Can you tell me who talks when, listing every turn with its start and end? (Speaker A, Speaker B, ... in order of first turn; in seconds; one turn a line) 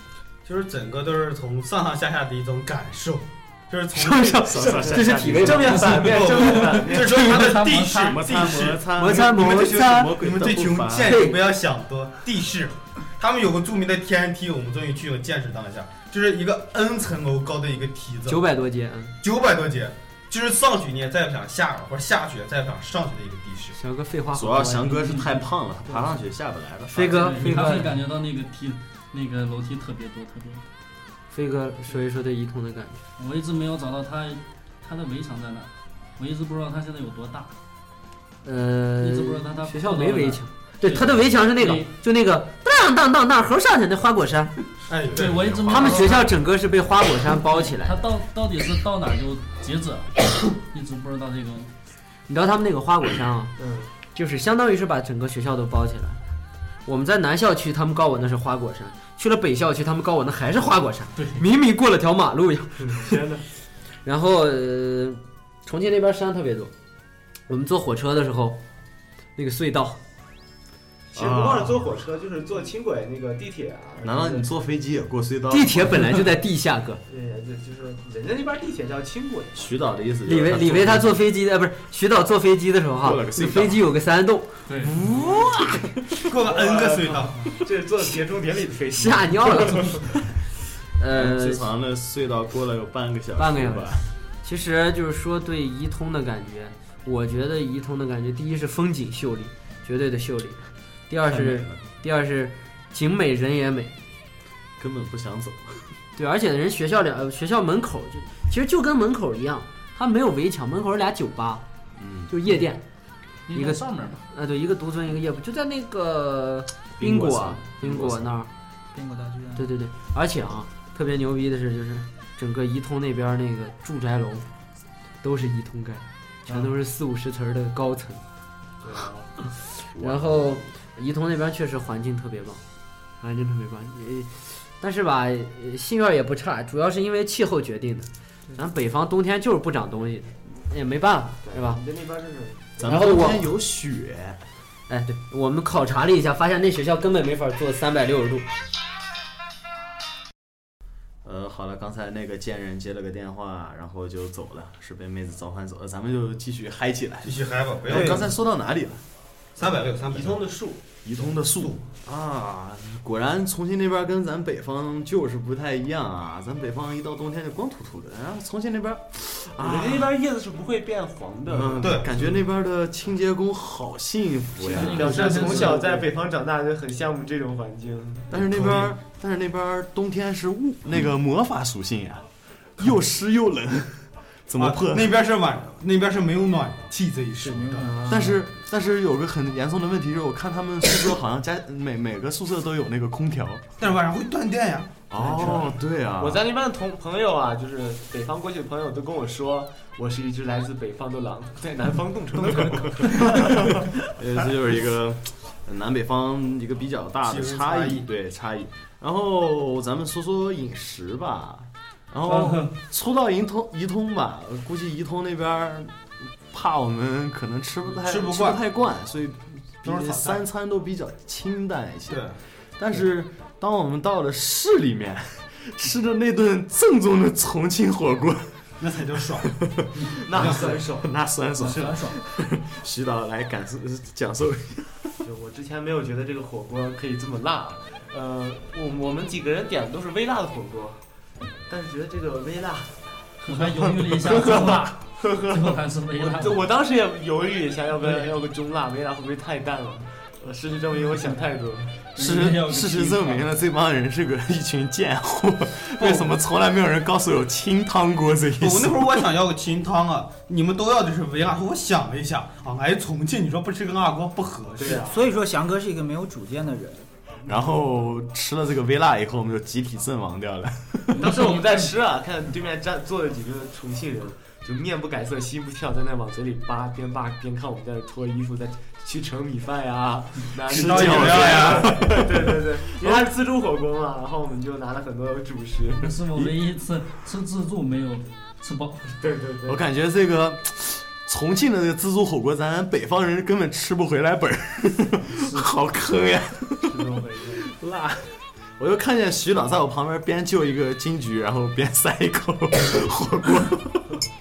Speaker A: 0.5-18.4
Speaker B: 3.9-7.7
Speaker C: 4.5-5.8
Speaker D: 4.6-8.8
Speaker E: 7.3-7.9
Speaker C: 8.0-11.1
Speaker B: 8.9-10.2
Speaker B: 11.1-11.4
Speaker B: 18.3-19.2
Speaker A: 19.2-23.8
Speaker B: 23.8-25.1
Speaker C: 24.3-27.8
Speaker E: 25.0-25.4
Speaker B: 26.9-27.9
Speaker E: 27.1-30.6
Speaker B: 31.3-33.0
Speaker E: 33.2-37.5
Speaker B: 38.4-44.5
Speaker E: 39.0-41.9
Speaker A: 44.9-46.1
Speaker E: 45.1-46.3
Speaker B: 45.7-48.0
Speaker E: 47.6-51.7
Speaker B: 52.3-53.5
Speaker D: 53.6-53.9
Speaker B: 54.1-56.2
Speaker B: 56.9-63.2
Speaker E: 61.2-61.4
Speaker D: 62.8-63.5
Speaker B: 64.0-66.7
Speaker B: 67.5-68.6
Speaker B: 69.4-70.0
Speaker D: 71.1-74.5
Speaker C: 71.1-71.8
Speaker C: 74.0-76.2
Speaker B: 75.5-77.0
Speaker D: 77.1-79.8
Speaker C: 79.5-81.2
Speaker B: 80.3-84.5
Speaker C: 83.0-83.8
Speaker E: 84.7-85.0
Speaker D: 85.1-85.5
Speaker A: 86.2-87.5
Speaker D: 86.4-90.0
Speaker B: 89.0-90.0
Speaker B: 91.0-91.7
Speaker C: 91.1-94.1
Speaker B: 93.4-103.9
Speaker C: 101.3-101.8
Speaker C: 104.8-105.9
Speaker B: 106.2-111.6
Speaker C: 112.0-112.3
Speaker B: 112.3-112.8
Speaker E: 113.5-114.2
Speaker B: 113.5-118.5
Speaker C: 117.0-118.3
Speaker F: 118.9-119.7
Speaker B: 119.6-124.5
Speaker B: 125.2-128.2
Speaker D: 128.8-129.3
Speaker C: 129.9-130.7
Speaker B: 130.0-132.6
Speaker B: 133.2-141.8
Speaker D: 141.4-143.1
Speaker C: 142.8-144.4
Speaker B: 142.8-143.4
Speaker B: 144.9-148.5
Speaker C: 151.2-159.0
Speaker A: 157.2-158.3
Speaker D: 157.9-158.2
Speaker A: 159.6-160.4
Speaker D: 159.6-161.3
Speaker C: 161.0-170.1
Speaker D: 169.6-172.3
Speaker C: 171.5-175.8
Speaker A: 171.8-172.1
Speaker D: 174.6-178.6
Speaker E: 174.7-175.9
Speaker C: 178.3-182.3
Speaker A: 178.5-178.9
Speaker C: 182.8-185.1
Speaker A: 184.6-188.0
Speaker F: 187.4-188.3
Speaker D: 187.9-188.3
Speaker C: 188.1-193.7
Speaker A: 193.8-195.7
Speaker C: 195.1-196.4
Speaker D: 195.2-203.9
Speaker C: 204.1-222.2
Speaker A: 207.2-208.1
Speaker E: 212.3-212.7
Speaker A: 218.0-218.6
Speaker A: 219.8-220.4
Speaker A: 222.1-222.4
Speaker C: 222.8-228.6
Speaker A: 228.8-229.5
Speaker C: 229.4-235.2
Speaker D: 230.0-231.2
Speaker A: 230.3-230.8
Speaker F: 231.6-232.2
Speaker D: 235.2-241.0
Speaker D: 241.7-243.2
Speaker E: 243.4-246.8
Speaker D: 243.8-252.0
Speaker C: 244.5-244.8
Speaker E: 252.2-253.5
Speaker C: 252.2-259.3
Speaker A: 258.6-265.0
Speaker D: 264.8-265.2
Speaker F: 264.9-267.1
Speaker C: 267.5-271.3
Speaker E: 271.1-271.9
Speaker D: 271.2-286.2
Speaker A: 280.7-282.1
Speaker C: 280.7-283.3
Speaker E: 286.0-289.1
Speaker D: 289.2-289.8
Speaker C: 289.6-304.2
Speaker D: 296.9-297.7